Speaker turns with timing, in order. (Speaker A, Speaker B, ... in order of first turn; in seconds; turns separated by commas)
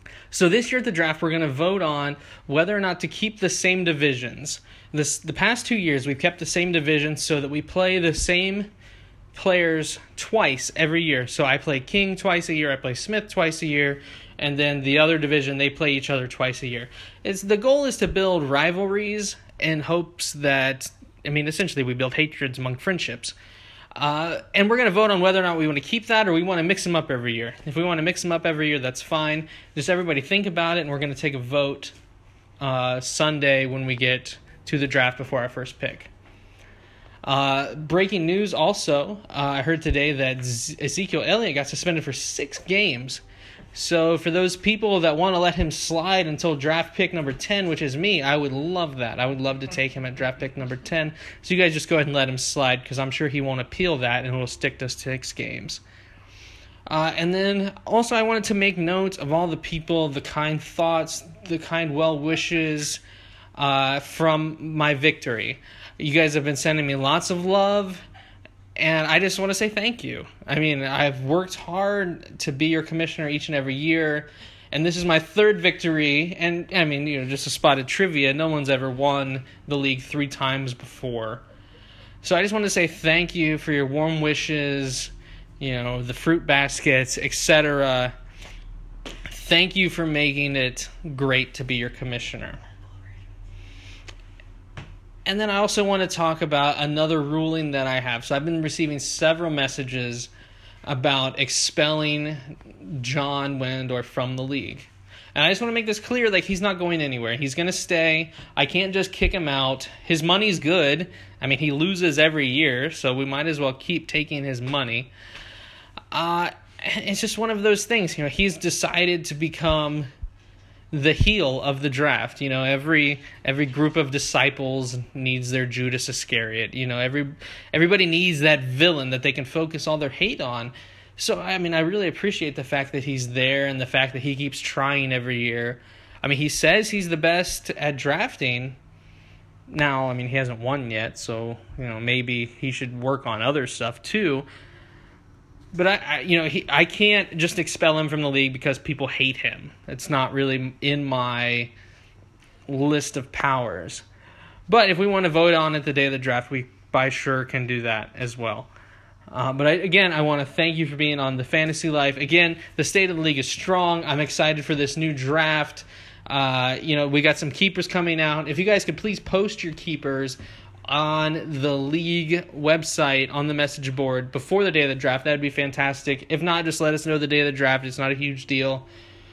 Speaker A: 0.3-8.7, Speaker A: 9.3-23.3, Speaker A: 23.9-31.9, Speaker A: 32.6-36.1, Speaker A: 37.2-43.2, Speaker A: 43.7-55.8, Speaker A: 56.9-63.0, Speaker A: 63.5-68.0, Speaker A: 68.8-81.4, Speaker A: 82.2-88.1, Speaker A: 89.3-92.6, Speaker A: 95.2-100.3, Speaker A: 100.8-115.1, Speaker A: 116.1-120.1, Speaker A: 120.9-138.8, Speaker A: 139.7-144.5, Speaker A: 145.7-151.7, Speaker A: 152.7-154.0, Speaker A: 154.7-158.7, Speaker A: 159.3-178.9